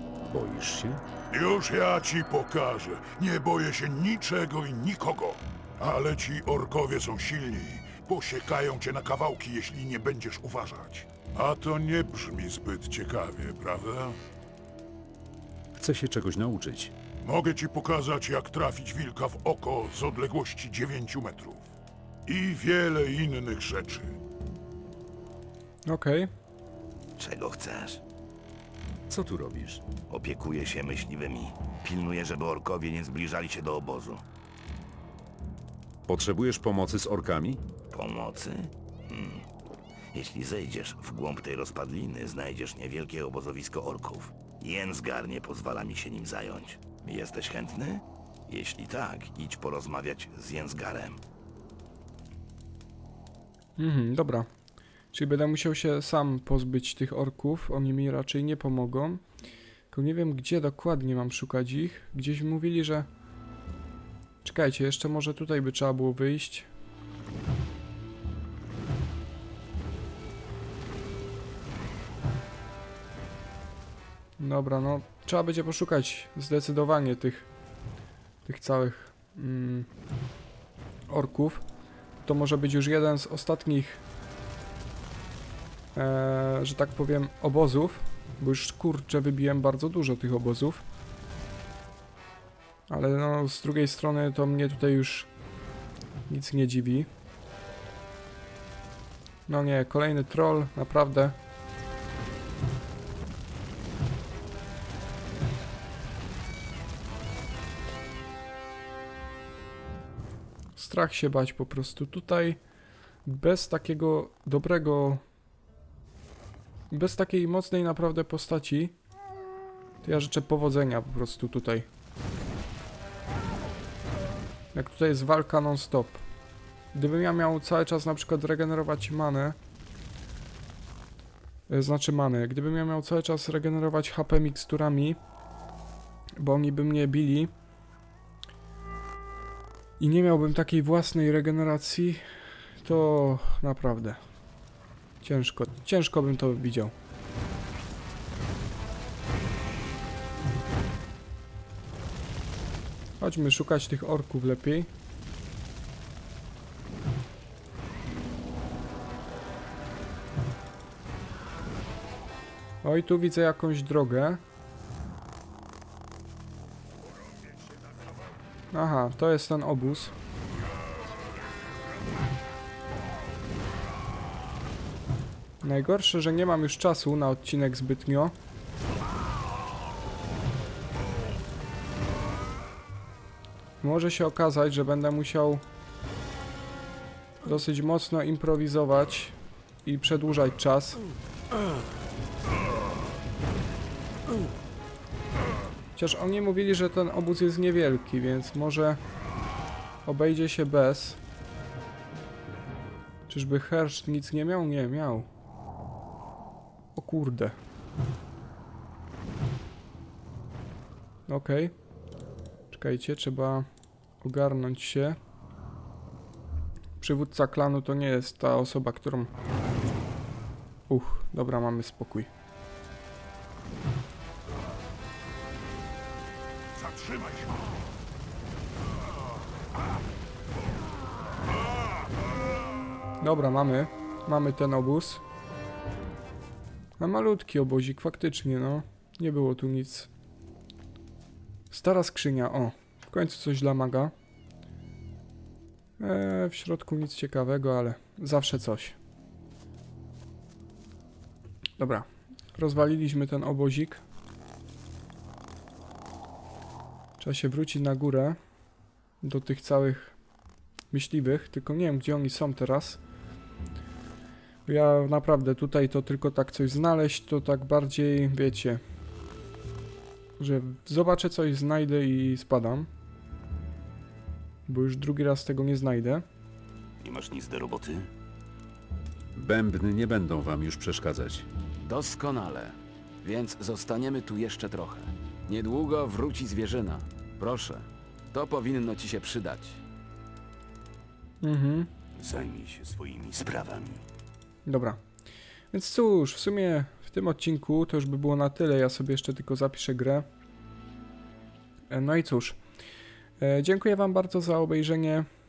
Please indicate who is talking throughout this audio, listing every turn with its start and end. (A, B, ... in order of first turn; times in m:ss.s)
0:00.3-0:01.0 A
0:01.3-0:14.2 B
0:15.8-0:16.9 A
0:17.2-0:21.7 B
0:22.3-0:24.2 B
0:25.9-0:26.3 C
0:27.2-0:28.0 D
0:29.1-0:29.8 A
0:30.1-0:34.2 D
0:36.1-0:37.6 A
0:37.9-0:39.5 D
0:40.1-0:51.2 D
0:53.8-0:54.5 C
0:55.1-0:59.2 C
0:59.9-1:03.1 C
1:04.4-1:06.7 C
1:14.4-1:17.5 C
1:18.4-1:19.9 C
1:21.1-1:21.6 C
1:22.2-1:24.0 C
1:25.9-1:30.8 C
1:32.9-1:35.3 C
1:36.3-1:37.1 C
1:39.5-1:41.4 C
1:50.8-1:52.6 C
1:53.2-1:55.2 C
1:56.9-1:58.9 C
2:00.0-2:01.9 C
2:04.7-2:06.2 C
2:06.9-2:09.6 C
2:11.7-2:15.2 C
2:16.4-2:17.5 C
2:20.0-2:22.2 C
2:22.8-2:24.2 C
2:25.2-2:26.9 C
2:33.2-2:34.9 C
2:42.8-2:44.4 C
2:48.7-2:50.1 C
2:55.6-2:58.3 C
3:03.8-3:05.6 C
3:07.4-3:11.0 C
3:16.0-3:19.0 C
3:20.0-3:21.2 C
3:23.3-3:25.3 C
3:27.0-3:27.6 C
3:31.3-3:31.7 C
3:32.7-3:33.7 C
3:34.2-3:35.2 C
3:37.0-3:39.3 C
3:40.9-3:42.3 C
3:46.8-3:47.6 B
3:53.2-3:55.2 C
3:57.0-4:00.1 C
4:01.7-4:04.1 C
4:06.0-4:09.0 C
4:11.8-4:14.0 C
4:17.2-4:18.4 C
4:19.2-4:20.2 C
4:20.9-4:23.0 C
4:24.7-4:28.8 C
4:30.4-4:32.9 C
4:34.7-4:36.2 C
4:37.0-4:38.1 D
4:39.4-4:41.5 A
4:41.8-4:49.8 E
4:51.4-4:51.9 C
4:52.2-4:54.0 D
4:54.7-4:55.0 C
4:55.7-5:00.3 C
5:01.9-5:02.6 C
5:03.4-5:05.3 C